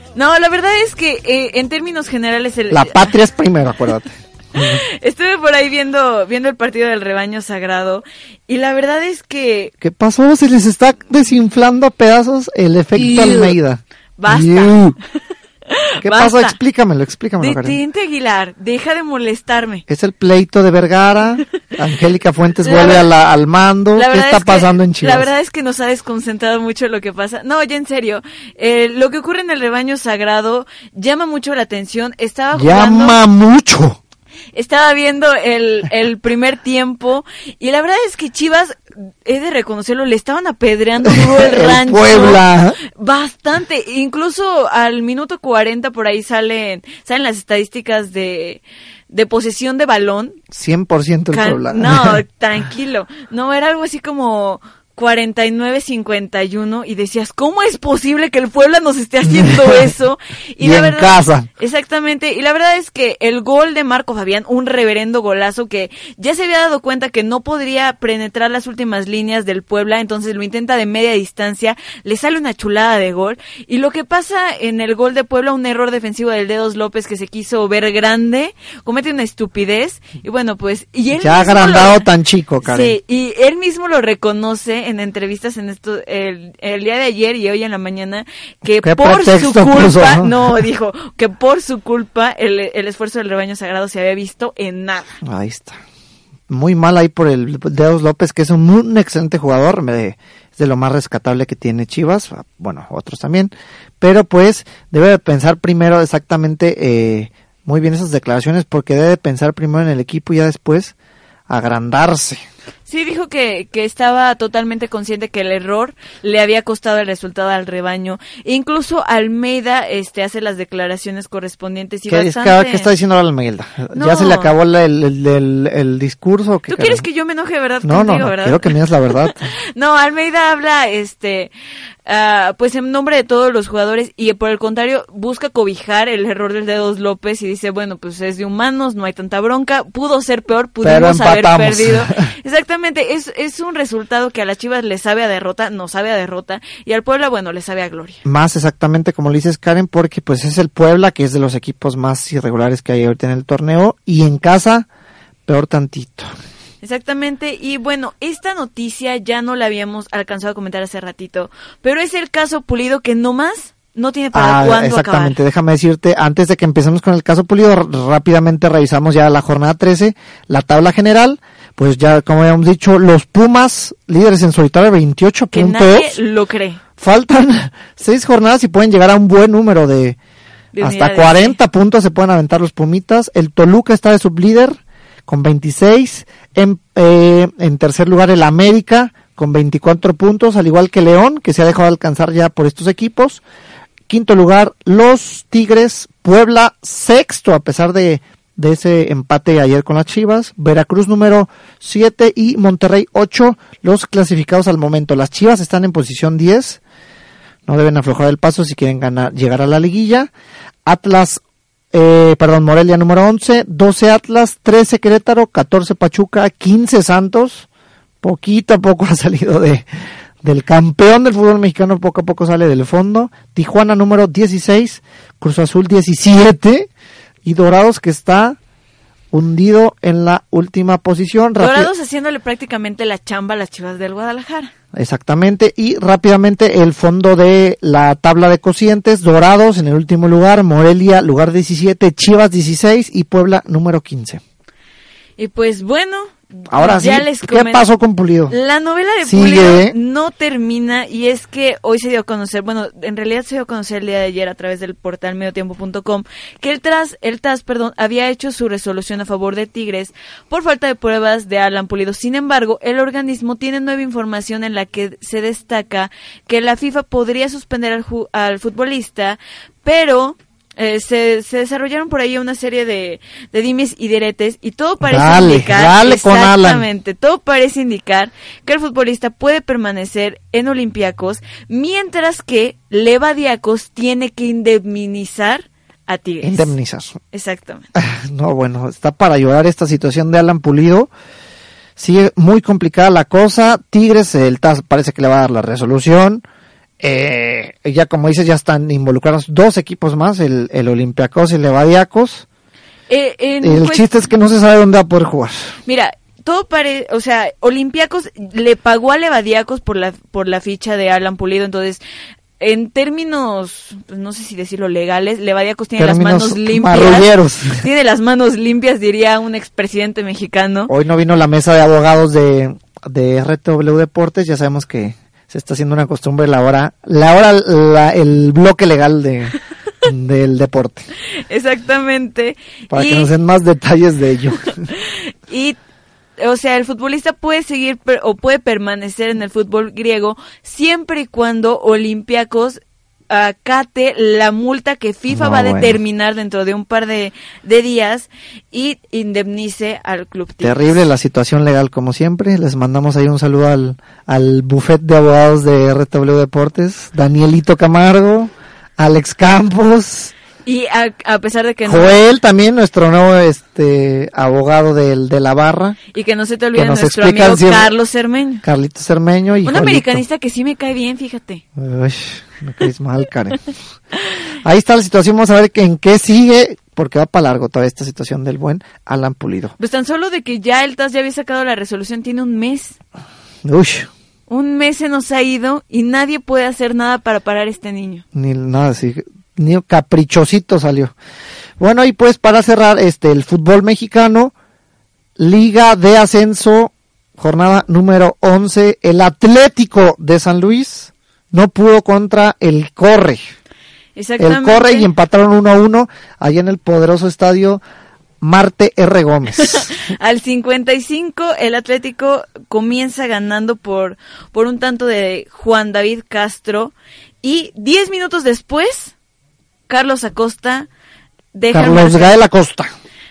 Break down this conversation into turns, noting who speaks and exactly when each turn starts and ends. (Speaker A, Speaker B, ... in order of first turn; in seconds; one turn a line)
Speaker A: 0.1-3.1
Speaker B: 2.7-4.8
Speaker A: 4.6-9.7
Speaker B: 9.8-15.0
Speaker A: 14.2-14.8
Speaker B: 16.0-17.8
Speaker A: 16.0-16.6
Speaker A: 17.4-19.8
Speaker B: 19.9-25.3
Speaker A: 22.6-23.1
Speaker A: 23.9-33.2
Speaker B: 32.5-34.0
Speaker A: 34.5-42.4
Speaker B: 41.0-42.8
Speaker A: 43.0-50.4
Speaker B: 50.5-52.2
Speaker A: 51.3-82.0
Speaker B: 59.3-59.9
Speaker B: 60.6-61.5
Speaker B: 81.1-83.0
Speaker A: 82.6-95.2
Speaker B: 88.8-90.6
Speaker B: 95.2-95.8
Speaker B: 96.5-110.9
Speaker B: 111.5-112.4
Speaker A: 112.9-122.9
Speaker B: 122.1-127.0
Speaker A: 123.9-124.5
Speaker A: 126.7-128.7
Speaker B: 127.8-129.5
Speaker A: 129.7-131.5
Speaker A: 132.1-148.2
Speaker B: 140.8-142.3
Speaker B: 148.2-154.9
Speaker B: 155.4-156.3
Speaker A: 156.8-165.4
Speaker B: 164.3-176.2
Speaker A: 175.5-176.8
Speaker B: 177.0-180.2
Speaker A: 180.7-181.6
Speaker B: 180.8-193.4
Speaker B: 194.1-206.8
Speaker B: 207.7-210.3
Speaker B: 210.8-217.7
Speaker B: 218.2-219.9
Speaker B: 220.4-226.9
Speaker B: 227.4-228.6
Speaker B: 229.3-231.9
Speaker A: 231.6-234.7
Speaker B: 234.9-244.4
Speaker A: 245.4-247.8
Speaker B: 246.7-248.5
Speaker A: 248.5-286.7
Speaker B: 249.2-249.9
Speaker B: 275.0-276.8
Speaker B: 286.4-287.2
Speaker A: 287.3-287.9
Speaker B: 287.9-291.1
Speaker B: 292.0-296.4
Speaker B: 297.0-302.4
Speaker A: 303.1-304.1
Speaker B: 303.6-305.7
Speaker A: 305.9-312.0
Speaker A: 312.6-320.9
Speaker B: 316.0-317.8
Speaker B: 320.9-331.1
Speaker A: 331.5-333.3
Speaker B: 332.9-334.9
Speaker A: 335.1-335.8
Speaker A: 336.4-351.1
Speaker B: 345.3-346.0
Speaker B: 350.6-360.3
Speaker A: 360.6-362.2
Speaker B: 361.8-366.0
Speaker A: 366.1-368.6
Speaker B: 366.7-367.9
Speaker B: 368.6-370.2
Speaker A: 369.6-371.6
Speaker B: 371.8-373.6
Speaker B: 374.6-379.7
Speaker A: 379.8-383.0
Speaker B: 383.6-384.1
Speaker A: 384.5-388.2
Speaker B: 388.3-391.1
Speaker B: 391.8-394.5
Speaker B: 395.4-403.5
Speaker A: 404.1-405.1
Speaker B: 404.4-407.8
Speaker B: 408.4-409.9
Speaker A: 409.6-419.1
Speaker A: 419.9-420.9
Speaker A: 421.5-422.4
Speaker B: 421.7-422.9